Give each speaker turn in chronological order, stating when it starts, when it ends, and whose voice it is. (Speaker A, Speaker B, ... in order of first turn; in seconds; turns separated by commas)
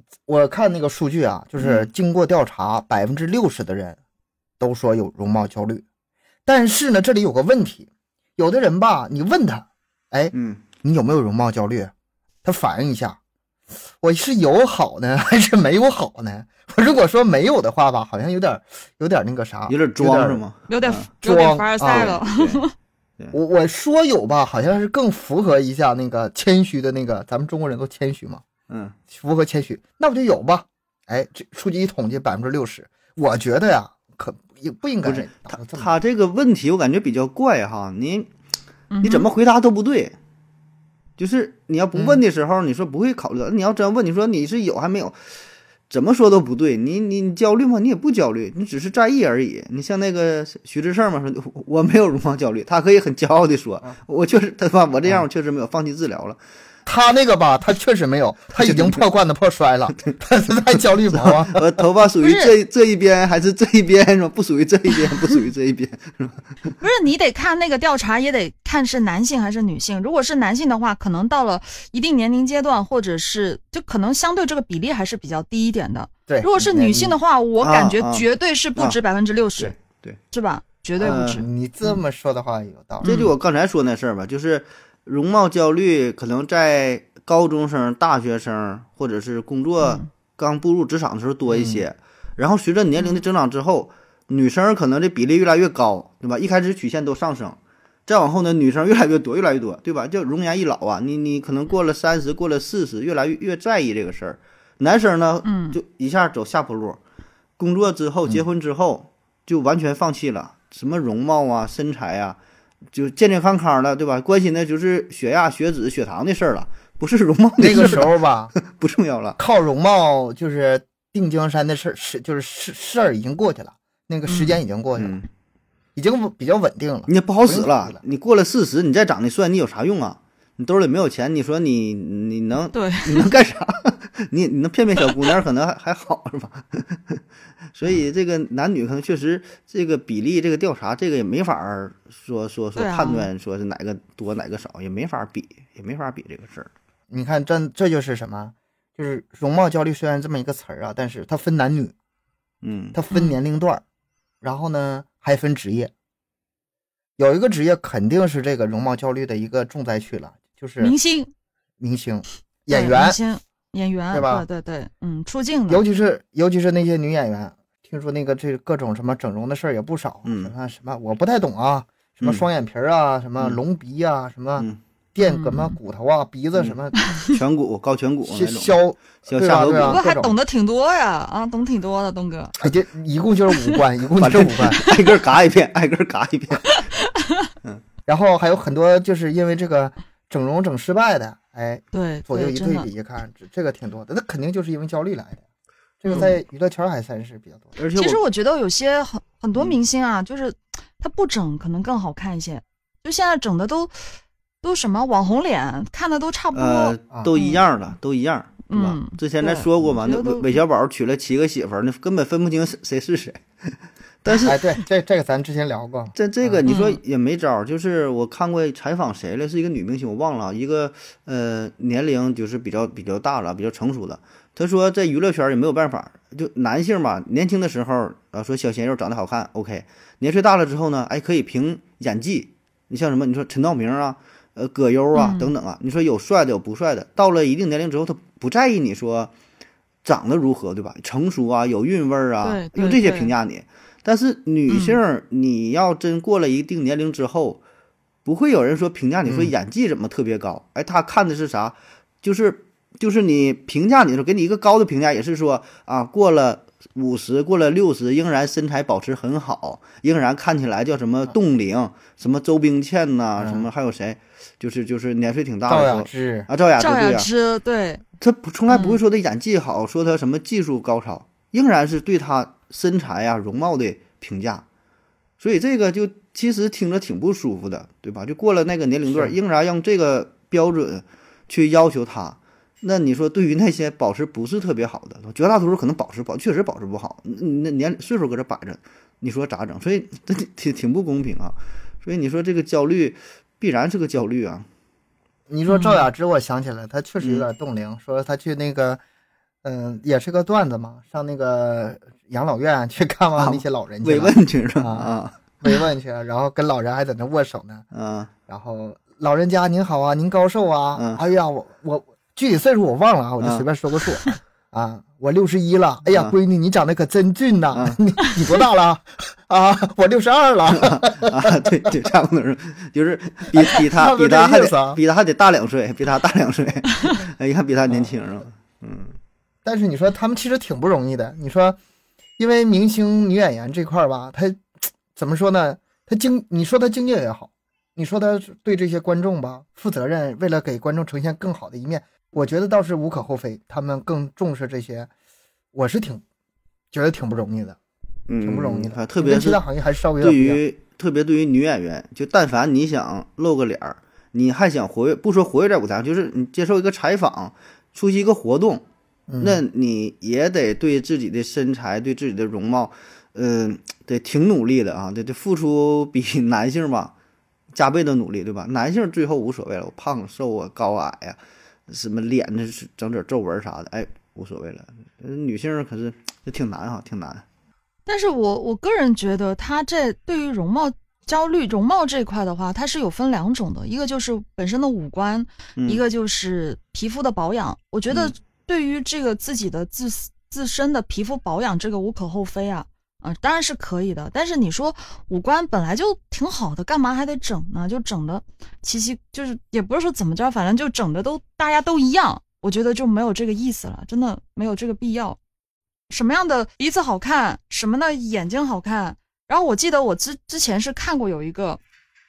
Speaker A: 0.3-4.0, Speaker A: 4.6-5.8, Speaker A: 6.5-11.9, Speaker B: 10.3-10.6, Speaker A: 12.4-13.2, Speaker A: 14.0-20.4, Speaker B: 19.7-21.1, Speaker C: 20.7-22.7, Speaker A: 21.2-22.2, Speaker B: 21.8-22.6, Speaker A: 23.3-28.4, Speaker B: 28.7-28.9, Speaker A: 29.1-35.9, Speaker B: 35.0-38.3, Speaker C: 38.9-39.3, Speaker B: 39.0-40.1, Speaker B: 41.2-45.1, Speaker A: 41.9-42.2, Speaker B: 45.9-56.4, Speaker A: 56.9-61.8, Speaker B: 58.6-59.0, Speaker B: 61.1-66.4, Speaker C: 62.2-62.5, Speaker C: 66.8-79.7, Speaker A: 76.3-77.2, Speaker B: 77.6-79.0, Speaker B: 79.6-80.2, Speaker C: 80.3-82.0, Speaker B: 81.0-81.4, Speaker A: 81.0-83.2, Speaker C: 83.0-83.3, Speaker B: 83.0-107.0, Speaker C: 89.8-90.1, Speaker A: 91.5-91.8, Speaker C: 105.4-105.8, Speaker B: 107.6-112.4, Speaker B: 112.9-119.4, Speaker A: 117.6-118.5, Speaker A: 119.4-125.2, Speaker C: 124.3-124.6, Speaker B: 125.0-125.3, Speaker A: 126.0-128.0, Speaker B: 127.1-137.2, Speaker C: 132.7-133.3, Speaker B: 137.7-146.7, Speaker C: 142.8-143.3, Speaker A: 147.1-151.9, Speaker B: 152.6-153.0, Speaker A: 152.9-153.8, Speaker A: 154.4-155.9, Speaker A: 157.2-160.9, Speaker C: 160.8-161.3, Speaker A: 161.8-163.2, Speaker C: 162.7-165.8, Speaker A: 164.1-164.4, Speaker A: 165.7-177.0, Speaker B: 170.2-170.5, Speaker C: 175.2-175.8, Speaker B: 176.5-180.0, Speaker C: 177.0-177.3, Speaker A: 178.2-180.3, Speaker C: 179.9-182.5, Speaker A: 182.6-184.8, Speaker B: 184.2-186.8, Speaker C: 184.8-185.2, Speaker C: 186.6-187.5, Speaker A: 188.1-195.4, Speaker C: 191.9-192.9, Speaker A: 196.0-197.7, Speaker C: 196.0-196.3, Speaker B: 196.1-196.3, Speaker B: 197.8-198.2, Speaker C: 197.9-203.9, Speaker C: 204.6-207.6, Speaker B: 206.5-213.7, Speaker C: 208.7-210.6, Speaker B: 214.2-214.6, Speaker A: 214.4-216.7, Speaker B: 216.1-239.3, Speaker C: 216.7-217.0, Speaker C: 235.1-235.5, Speaker B: 240.0-247.6, Speaker C: 242.4-243.3, Speaker C: 244.7-245.0, Speaker B: 248.2-267.3, Speaker A: 249.2-249.5, Speaker A: 263.4-263.6, Speaker A: 265.7-266.5, Speaker C: 266.8-268.0, Speaker B: 268.2-274.6, Speaker C: 268.7-269.0, Speaker B: 275.4-294.6, Speaker A: 279.1-279.4, Speaker A: 295.5-299.0, Speaker C: 295.7-296.0, Speaker B: 297.2-297.4, Speaker A: 299.6-307.9, Speaker B: 303.4-305.3, Speaker B: 307.9-308.3, Speaker A: 308.5-321.9, Speaker B: 310.9-311.2, Speaker B: 313.4-313.6, Speaker B: 316.1-316.3, Speaker B: 320.7-329.1, Speaker A: 323.5-325.0, Speaker A: 329.6-331.8, Speaker A: 332.4-345.1, Speaker A: 345.7-346.2, Speaker A: 346.9-347.8, Speaker B: 348.3-349.6, Speaker A: 348.4-350.6, Speaker B: 350.2-358.8, Speaker A: 359.3-359.6, Speaker B: 359.4-367.1, Speaker B: 367.7-377.4, Speaker C: 378.1-405.4, Speaker B: 385.8-386.0, Speaker C: 406.1-411.8